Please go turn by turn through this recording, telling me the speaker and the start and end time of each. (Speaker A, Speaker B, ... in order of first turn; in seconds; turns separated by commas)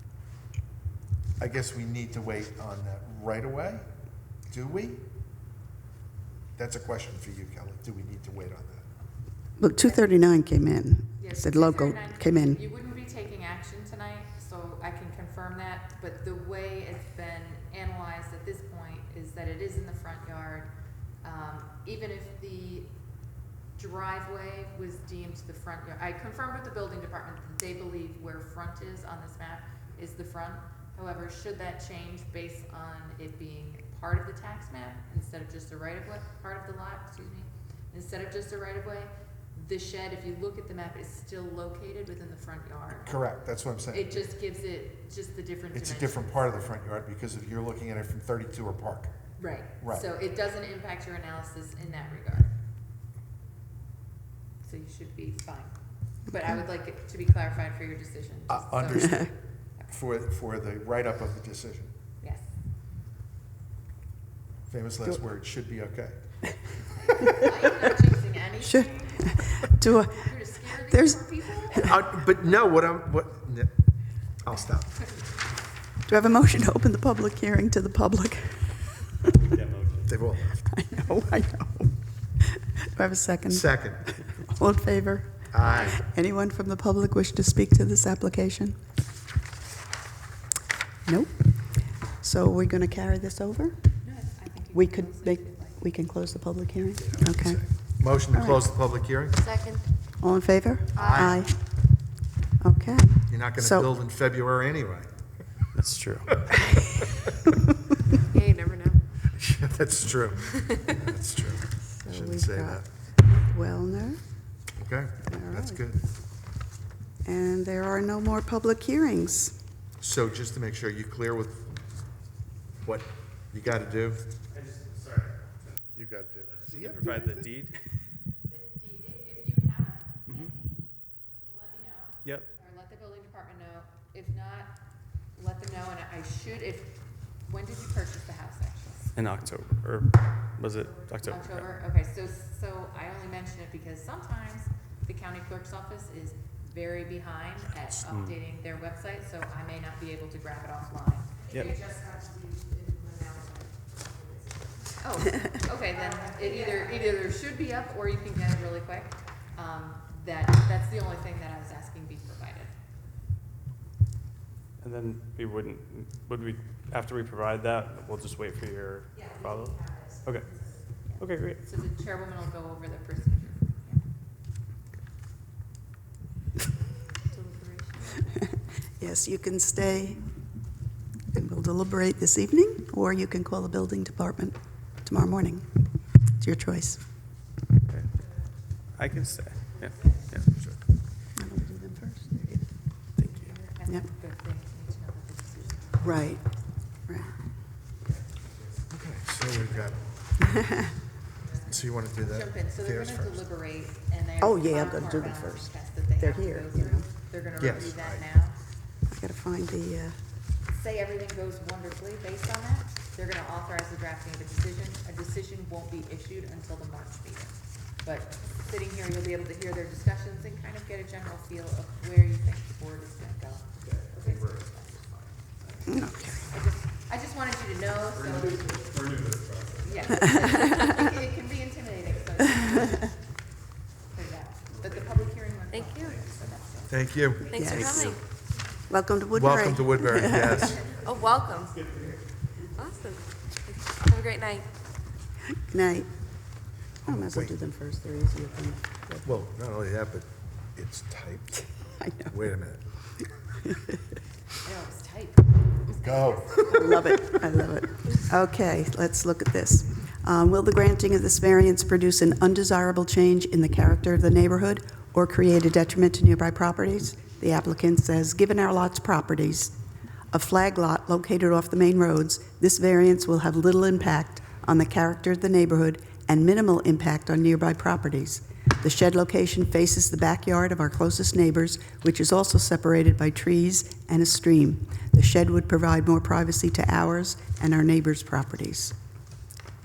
Speaker A: 1.4-3.9, Speaker A: 4.5-5.0, Speaker A: 6.5-8.9, Speaker B: 9.6-12.6, Speaker C: 9.8-10.1, Speaker C: 11.2-20.7, Speaker C: 21.2-22.9, Speaker C: 23.8-43.1, Speaker A: 43.0-44.3, Speaker C: 43.9-46.5, Speaker A: 45.7-49.1, Speaker C: 49.4-52.5, Speaker A: 49.8-50.1, Speaker C: 54.6-55.8, Speaker C: 56.3-59.2, Speaker A: 58.5-59.3, Speaker A: 59.9-61.9, Speaker C: 62.2-62.5, Speaker A: 64.7-66.2, Speaker C: 66.9-69.4, Speaker B: 68.6-72.0, Speaker C: 70.2-71.9, Speaker A: 71.8-73.8, Speaker A: 74.4-75.0, Speaker B: 76.1-79.4, Speaker D: 79.5-80.3, Speaker A: 80.1-80.6, Speaker B: 80.6-88.8, Speaker A: 83.5-84.1, Speaker A: 85.5-86.0, Speaker C: 85.6-86.0, Speaker B: 91.0-93.9, Speaker C: 94.0-95.8, Speaker B: 94.7-97.7, Speaker A: 97.0-99.4, Speaker B: 98.3-98.7, Speaker E: 99.4-99.8, Speaker B: 100.2-101.6, Speaker E: 101.0-101.4, Speaker A: 101.0-101.4, Speaker B: 102.6-103.9, Speaker A: 103.3-105.1, Speaker D: 105.8-106.4, Speaker B: 106.7-107.1, Speaker E: 108.3-109.0, Speaker A: 109.3-112.8, Speaker E: 110.5-111.0, Speaker B: 111.8-114.2, Speaker A: 114.8-116.1, Speaker B: 115.3-115.9, Speaker B: 117.2-119.6, Speaker A: 120.0-121.8, Speaker A: 122.8-124.2, Speaker D: 124.5-127.8, Speaker A: 125.9-127.5, Speaker C: 128.5-130.8, Speaker D: 130.3-130.5, Speaker C: 131.5-134.7, Speaker C: 135.3-139.1, Speaker D: 139.2-141.7, Speaker C: 141.3-151.9, Speaker D: 148.1-148.3, Speaker D: 151.5-151.8, Speaker E: 151.9-155.0, Speaker C: 155.0-162.7, Speaker D: 164.8-171.6, Speaker C: 171.1-174.0, Speaker E: 177.3-178.3, Speaker B: 179.0-180.3, Speaker B: 181.3-185.7, Speaker B: 186.4-187.0, Speaker D: 187.9-188.3, Speaker D: 188.9-190.8, Speaker B: 191.4-192.7, Speaker D: 193.2-193.6, Speaker C: 193.2-196.9, Speaker B: 196.0-196.4, Speaker B: 197.1-197.4, Speaker A: 198.9-200.1, Speaker B: 200.5-200.8, Speaker C: 201.4-208.6, Speaker A: 201.7-203.4, Speaker B: 204.4-207.1, Speaker A: 207.6-208.3, Speaker B: 209.1-210.2, Speaker C: 210.7-225.0, Speaker A: 223.9-225.3, Speaker C: 225.7-228.9, Speaker B: 225.9-226.4, Speaker D: 228.1-230.5, Speaker C: 229.8-233.2, Speaker B: 230.2-230.8, Speaker C: 234.1-237.0, Speaker E: 235.7-236.2, Speaker D: 236.1-236.3, Speaker A: 236.9-238.2, Speaker E: 237.5-238.2, Speaker B: 237.6-238.2, Speaker B: 238.9-240.8, Speaker A: 239.3-241.0, Speaker E: 240.9-241.8, Speaker D: 241.8-242.2, Speaker E: 242.7-244.7, Speaker B: 245.7-246.1, Speaker A: 247.0-247.6, Speaker B: 247.1-249.4, Speaker A: 249.2-251.7, Speaker B: 252.0-252.4, Speaker A: 252.3-252.8, Speaker B: 253.6-254.0, Speaker C: 254.6-257.2, Speaker A: 256.0-256.8, Speaker B: 256.6-269.8, Speaker B: 270.3-288.9